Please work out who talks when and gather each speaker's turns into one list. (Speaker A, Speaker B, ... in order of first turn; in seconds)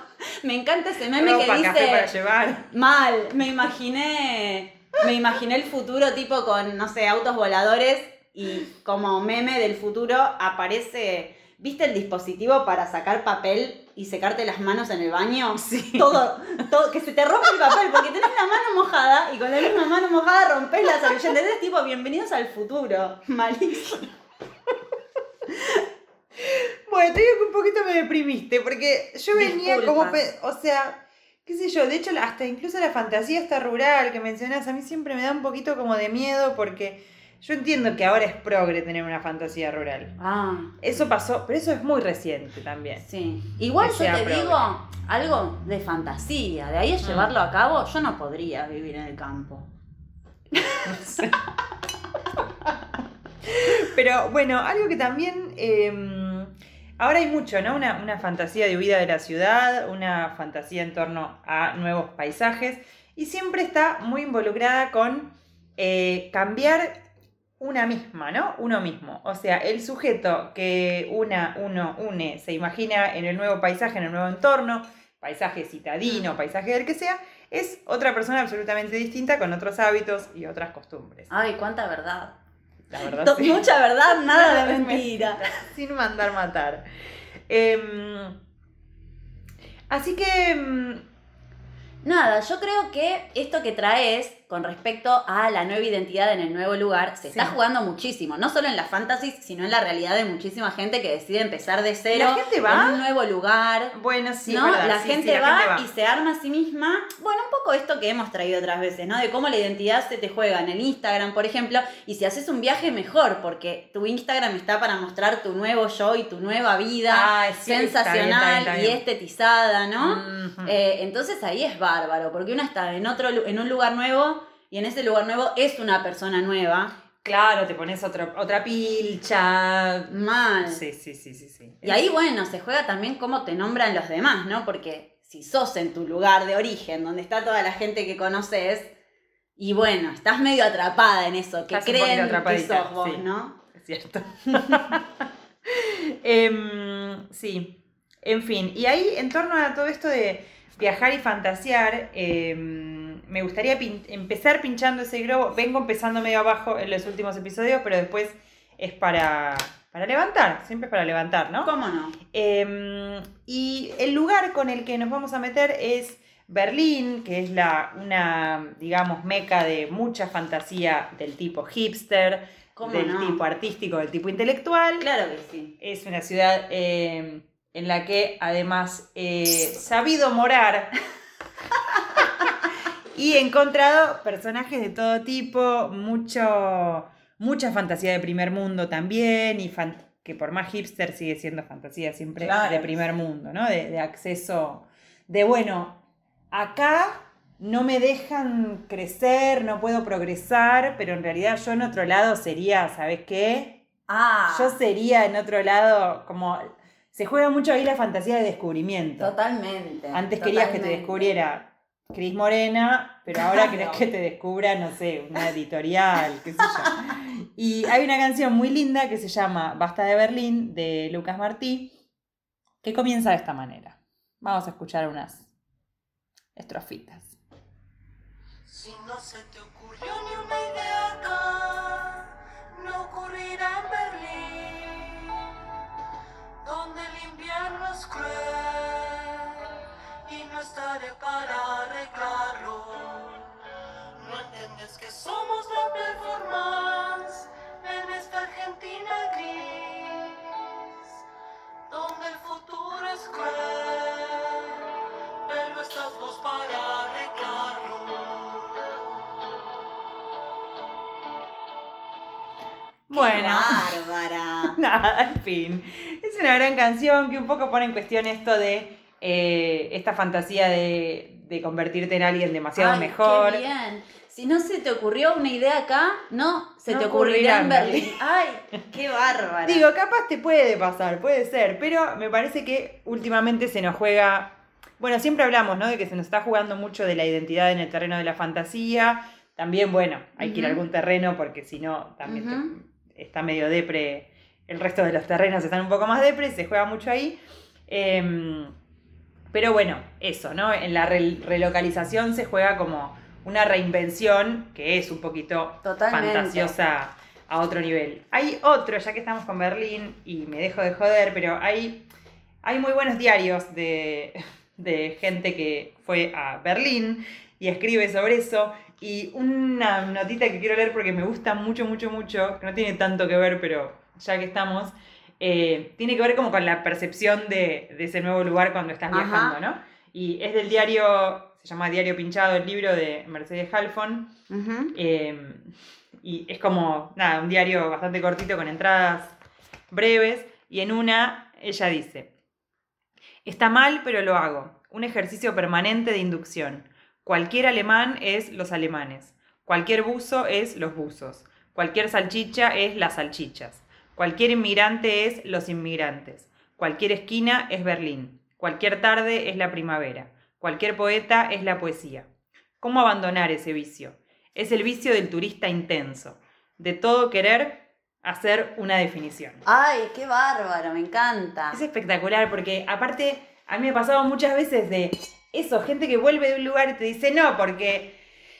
Speaker A: 0.4-2.1, 2.7-24.1, 25.5-25.8, 29.3-30.2, 40.2-40.8, 43.0-49.7, 50.5-51.3, 81.3-82.3, 83.0-85.4, 92.0-103.9, 104.5-126.9, 130.1-130.8, 131.8-138.9, 139.6-143.6, 161.6-162.2, 172.8-173.4, 175.0-175.7, 192.4-193.0, 204.1-204.8, 209.2-211.3, 213.3-214.0, 263.1-264.8, 272.8-279.9, 290.4-290.8, 292.2-292.7, 305.8-306.7, 329.1-329.6, 334.5-334.9, 369.6-371.8
Speaker B: 1.1-2.7, 15.6-16.1, 26.4-40.1, 40.8-43.0, 43.8-44.6, 47.0-47.3, 50.8-51.4, 53.4-67.0, 67.6-81.3, 82.9-86.8, 87.5-88.4, 89.9-91.0, 97.3-97.5, 102.1-103.0, 103.9-105.8, 117.1-119.0, 120.0-120.7, 127.2-130.1, 130.7-132.0, 141.7-145.0, 145.7-161.7, 162.3-175.1, 175.8-181.0, 183.1-203.8, 204.5-209.3, 210.1-221.9, 222.8-225.5, 226.6-227.4, 263.1-263.9, 264.7-273.6, 276.9-278.2, 279.6-298.7, 299.5-312.1, 312.6-334.3, 334.9-339.4, 339.9-342.3, 343.4-362.3, 362.8-369.6, 371.7-378.2
Speaker C: 228.7-235.5, 236.6-243.5, 244.2-250.8, 251.9-254.8, 255.4-258.9